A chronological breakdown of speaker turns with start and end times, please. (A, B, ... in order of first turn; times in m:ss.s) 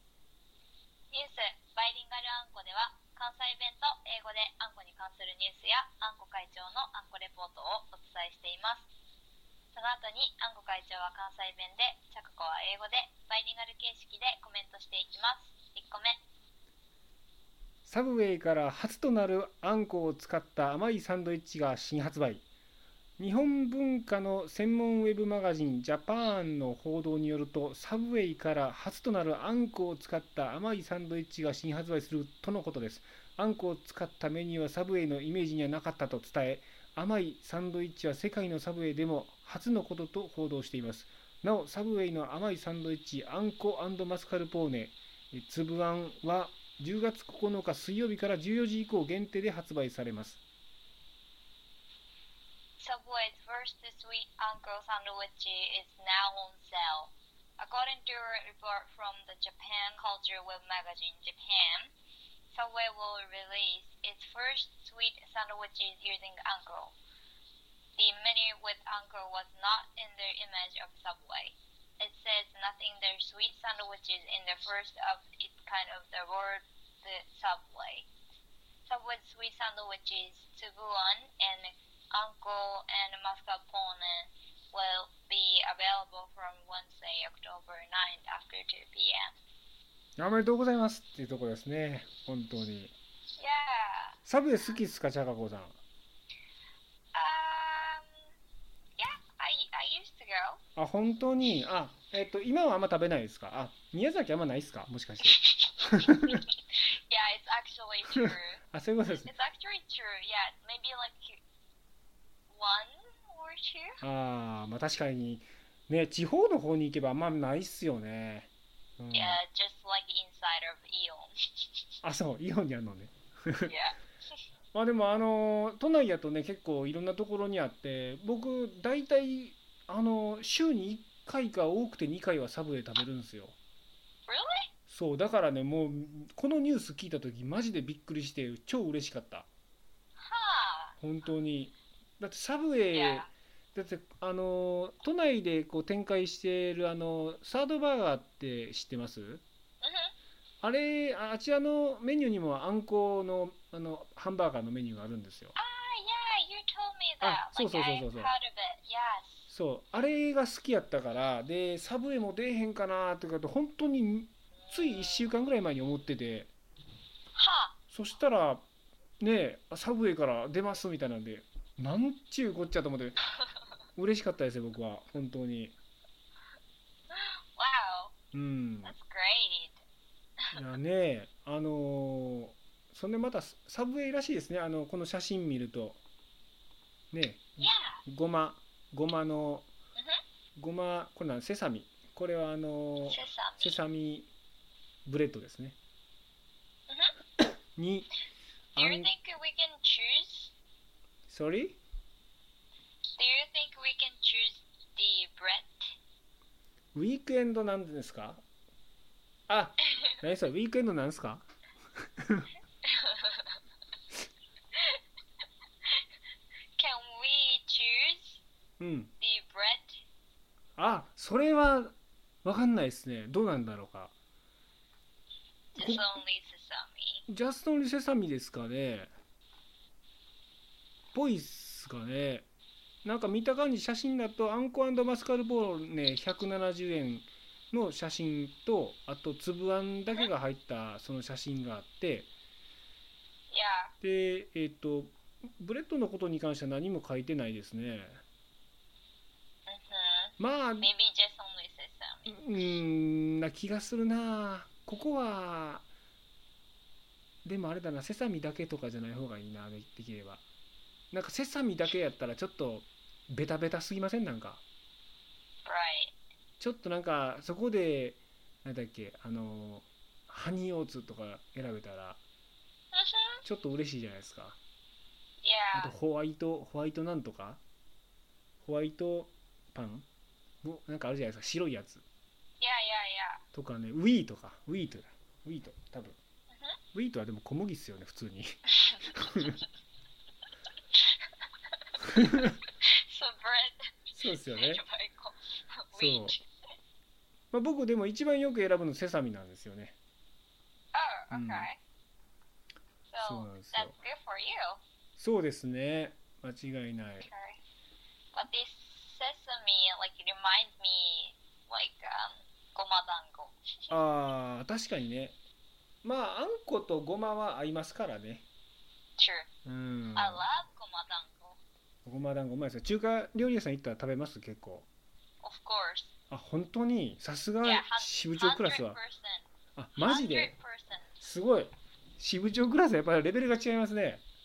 0:01.1-0:08.9 A
0:09.7-0:16.2 A
0:17.8-0:22.4 B
0:23.2-0:50.4 B
0:52.8-1:01.9 A
1:02.5-1:07.0 A
1:08.0-1:18.1 A
1:18.9-1:29.3 A
1:30.2-1:32.9 B
1:33.4-1:34.2 A
1:34.2-1:35.8 B
1:37.1-1:38.1 A
1:39.0-1:40.6 A
1:40.8-1:46.4 B
1:45.3-1:46.4 A
1:46.9-1:48.6 A
1:48.7-1:49.3 B
1:49.2-1:51.4 A
1:52.5-1:54.0 A
1:54.0-1:59.4 B
1:59.1-2:01.7 A
2:02.0-2:03.7 B
2:03.6-2:04.4 A
2:04.7-2:13.6 B
2:14.3-2:14.7 A
2:14.9-2:19.5 B
2:20.2-2:21.0 A
2:21.0-2:29.4 B
2:22.9-2:23.3 A
2:29.8-2:30.1 A
2:30.6-2:35.6 B
2:35.6-2:39.4 A
2:37.2-2:38.3 B
2:39.5-2:46.5 B
2:44.7-2:45.2 A
2:47.3-2:47.8 A
2:47.9-2:48.6 B
2:49.2-2:53.2 B
2:54.0-2:55.7 B
2:57.1-2:58.1 A
2:58.3-2:59.0 B
2:58.8-2:59.8 A
3:00.5-3:06.0 B
3:07.1-3:09.7 B
3:07.6-3:08.0 A
3:10.6-3:14.3 B
3:13.1-3:13.8 A
3:15.0-3:15.8 B
3:17.7-3:18.1 B
3:18.8-3:19.1 B
3:18.8-3:20.5 A
3:21.3-3:21.8 B
3:23.2-3:25.9 A
3:26.9-3:28.4 B
3:29.5-3:31.4 B
3:32.2-3:32.5 B
3:32.8-3:33.6 A
3:34.7-3:35.0 A
3:36.8-3:38.4 A
3:38.8-3:39.1 B
3:39.2-3:40.0 A
3:40.8-3:44.1 B
3:45.7-3:46.1 B
3:45.8-3:47.2 A
3:47.3-3:49.1 B
3:51.1-3:52.4 B
3:53.0-4:02.3 B
4:03.5-4:03.9 A
4:04.0-4:08.2 B
4:09.7-4:12.4 A
4:10.4-4:10.9 B
4:12.3-4:15.8 B
4:17.4-4:20.4 B
4:21.1-4:24.6 B
4:25.6-4:26.1 A
4:26.6-4:32.2 B
4:32.9-4:33.4 A
4:33.4-4:34.6 B
4:35.4-4:35.9 A
4:35.7-4:37.6 B
4:38.6-4:40.0 B
4:40.6-4:42.0 B
4:42.6-4:43.4 A
4:43.5-4:46.2 B
4:46.5-4:46.8 A
4:46.9-4:49.6 B
4:52.4-4:56.4 A
4:54.1-4:54.8 B
4:55.9-4:56.4 B
4:57.5-5:00.0 B
5:00.9-5:01.8 A
5:01.3-5:01.7 B
5:03.1-5:04.8 A
5:03.2-5:04.0 B
5:05.2-5:07.3 B
5:07.2-5:07.6 A
5:08.3-5:13.9 A
5:13.9-5:15.4 B
5:16.0-5:18.4 B
5:19.2-5:19.5 A
5:19.6-5:20.4 B
5:20.2-5:21.6 A
5:22.0-5:24.8 B
5:25.4-5:26.1 A
5:26.3-5:29.0 B
5:27.6-5:29.4 A
5:29.8-5:30.5 B
5:30.0-5:31.1 A
5:31.2-5:34.2 B